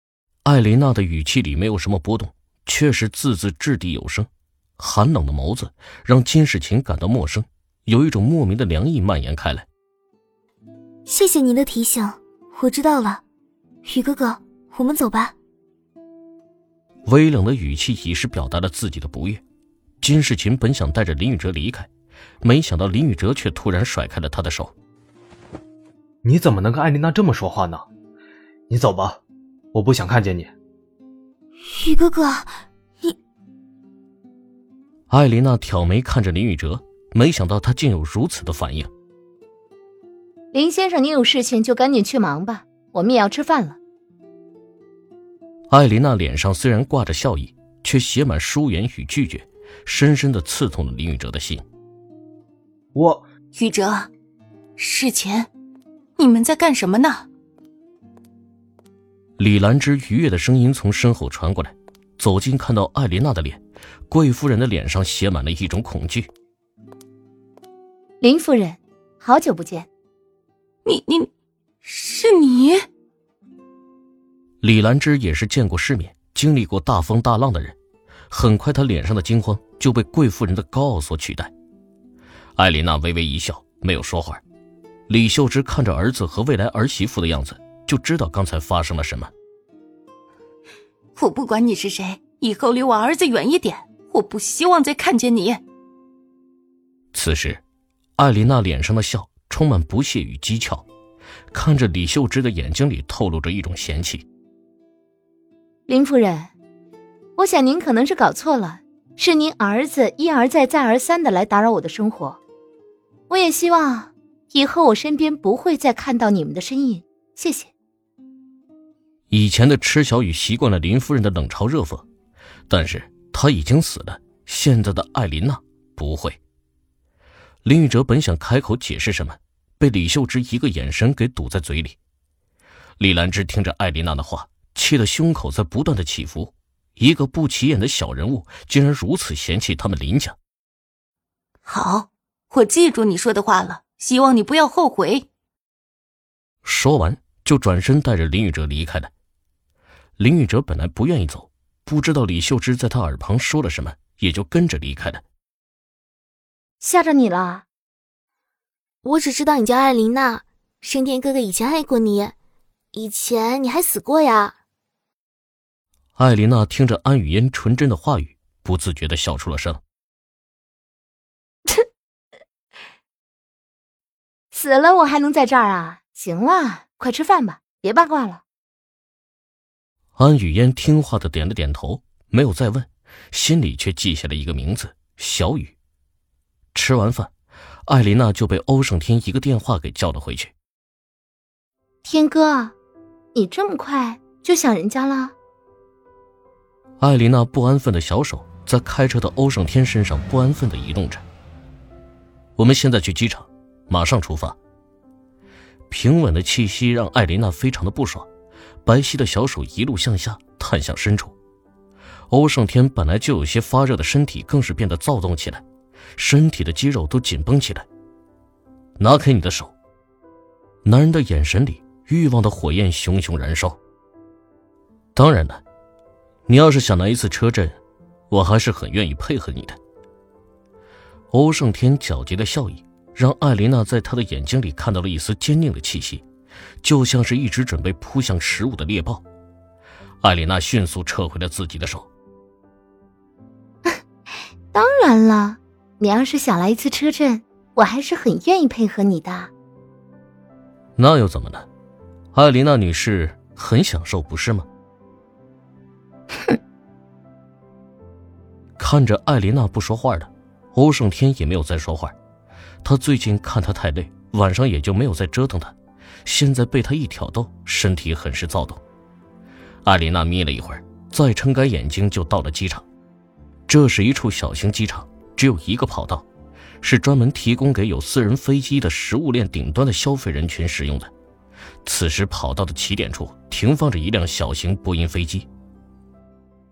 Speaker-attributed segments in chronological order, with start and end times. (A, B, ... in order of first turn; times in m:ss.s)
0:00.4-0:09.7 A
0:11.1-0:13.2 B
0:13.8-0:15.3 B
0:17.0-0:19.4 A
0:20.0-0:21.9 A
0:22.4-0:24.7 A
0:26.2-0:27.8 C
0:28.7-0:29.2 C
0:29.7-0:30.5 C
0:31.6-0:32.5 B
0:35.1-0:38.9 A
0:40.5-0:43.8 D
0:45.7-0:51.6 A
0:52.9-0:53.2 C
0:53.5-0:54.1 E
0:54.8-0:55.5 E
0:56.2-0:57.3 E
0:59.4-1:06.3 A
1:08.2-1:09.9 D
1:10.8-1:11.3 E
1:11.8-1:12.9 E
1:14.6-1:17.8 A
1:18.3-1:21.5 A
1:22.6-1:24.4 A
1:25.1-1:29.3 A
1:31.2-1:35.6 E
1:37.1-1:37.6 A
1:38.2-1:40.8 A
1:41.5-1:44.2 A
1:45.9-1:46.5 D
1:47.4-1:52.4 D
1:53.3-1:57.7 D
1:59.3-2:02.0 A
2:02.7-2:06.4 A
2:07.6-2:12.0 A
2:13.0-2:20.4 A
2:21.6-2:25.3 E
2:26.6-2:29.1 A
2:30.2-2:35.2 A
2:36.8-2:37.6 D
2:39.0-2:42.3 B
2:42.9-2:44.5 B
2:46.2-2:49.8 A
2:54.5-2:58.4 D
3:00.2-3:05.7 A
3:06.7-3:07.3 A
3:07.9-3:10.5 A
3:12.0-3:12.7 D
3:13.3-3:15.3 D
3:17.0-3:21.2 A
3:22.6-3:24.6 A
3:25.9-3:28.3 A
3:28.8-3:31.3 A
3:32.3-3:35.6 A
3:36.2-3:37.8 A
3:39.0-3:39.7 A
3:40.8-3:43.8 A
3:45.1-3:45.6 A
3:46.5-3:47.8 A
3:48.3-3:49.8 A
3:51.3-3:56.2 A
3:56.8-3:59.2 A
4:00.2-4:02.1 A
4:04.7-4:09.5 D
4:11.0-4:11.6 A
4:12.3-4:14.6 A
4:18.8-4:22.1 A
4:22.8-4:28.8 A
4:29.8-4:32.8 A
4:33.7-4:36.2 A
4:36.8-4:41.1 A
4:41.8-4:45.5 A